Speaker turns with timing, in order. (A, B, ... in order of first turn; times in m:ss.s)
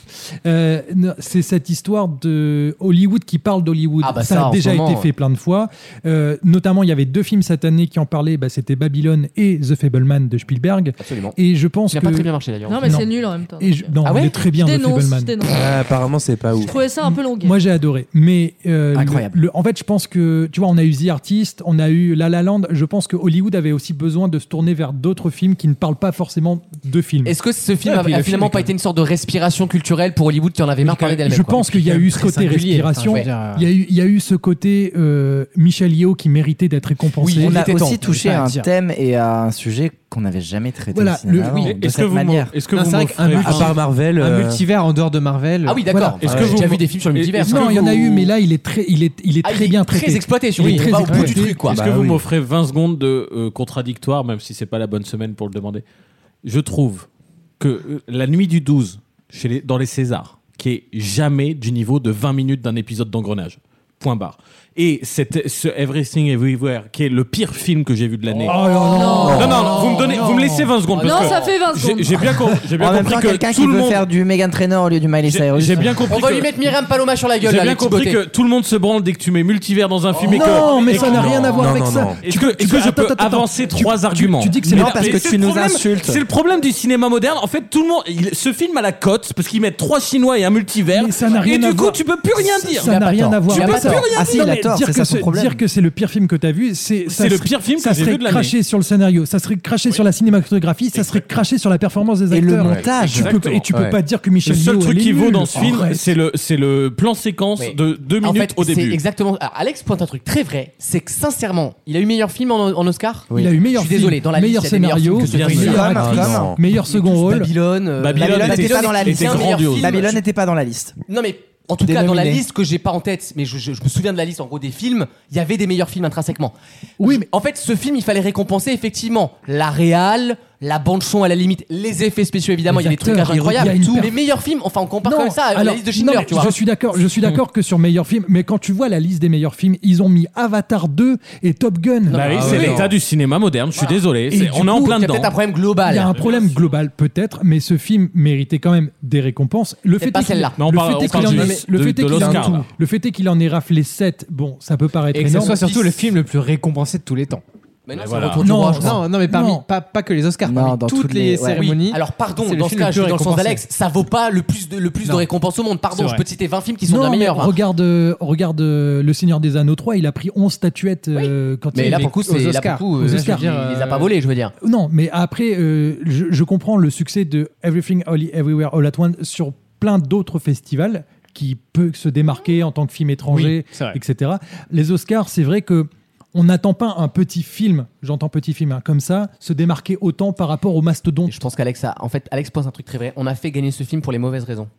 0:00.4-0:15.4 A
0:04.0-0:05.1 B
0:11.0-0:11.4 B
0:11.9-0:13.0 B
0:12.7-0:14.0 C
0:14.0-0:14.4 B
0:14.5-0:15.7 C
0:15.5-0:16.8 D
0:16.6-0:17.6 C
0:17.0-0:27.4 A
0:18.9-0:19.4 E
0:27.2-0:31.6 B
0:27.8-0:28.7 F
0:30.9-0:33.7 F
0:31.0-0:37.7 A
0:37.2-0:38.0 B
0:37.4-0:42.5 E
0:38.0-0:38.7 F
0:40.9-0:41.8 A
0:41.6-0:43.8 G
0:42.7-0:45.9 F
0:43.3-0:44.6 D
0:45.6-0:48.0 B
0:45.9-0:46.2 A
0:46.2-0:48.3 G
0:46.2-0:46.7 D
0:47.4-0:51.7 A
0:49.4-0:51.8 B
0:50.6-0:51.4 F
0:51.7-0:52.2 D
0:51.7-0:55.8 G
0:56.4-0:57.1 G
0:57.6-1:08.6 G
1:08.4-1:10.7 A
1:08.9-1:09.7 C
1:09.2-1:14.1 G
1:11.0-1:12.3 C
1:11.0-1:11.5 B
1:12.8-1:16.0 E
1:15.2-1:16.5 G
1:16.0-1:18.2 B
1:17.4-1:21.6 G
1:20.2-1:25.3 A
1:20.3-1:21.6 B
1:21.0-1:22.2 D
1:22.2-1:32.9 G
1:24.6-1:26.2 E
1:30.9-1:32.0 A
1:32.6-1:46.1 A
1:32.8-1:34.2 B
1:33.5-1:34.5 G
1:34.1-1:35.6 E
1:37.1-1:38.5 G
1:40.9-1:41.2 G
1:42.3-1:43.4 E
1:43.0-1:43.7 G
1:43.7-1:44.0 D
1:44.4-1:49.0 G
1:47.6-2:00.2 B
1:53.3-1:57.5 A
1:55.2-1:56.0 G
1:55.3-1:56.6 E
1:55.4-1:56.6 D
1:58.0-2:00.1 G
1:58.1-2:01.0 E
2:01.1-2:16.6 B
2:01.8-2:02.4 E
2:07.0-2:07.3 A
2:12.7-2:14.2 A
2:13.1-2:14.1 D
2:15.0-2:22.3 A
2:22.1-2:22.9 B
2:22.1-2:25.3 G
2:22.2-2:23.0 D
2:24.3-2:25.0 A
2:24.8-2:26.2 B
2:25.8-2:35.6 A
2:26.0-2:26.7 G
2:30.0-2:31.3 B
2:30.6-2:32.7 G
2:31.1-2:32.6 D
2:35.1-2:37.4 F
2:35.3-2:36.0 B
2:37.8-2:39.0 B
2:37.9-2:38.4 G
2:38.4-2:39.6 A
2:38.7-2:43.6 F
2:40.4-2:41.6 E
2:41.5-2:47.5 B
2:45.0-2:45.3 F
2:45.9-2:46.2 F
2:46.8-2:52.1 A
2:51.2-2:54.5 B
2:51.8-2:54.1 F
2:53.0-2:53.5 A
2:54.6-3:11.4 A
3:03.3-3:04.0 F
3:11.3-3:14.7 B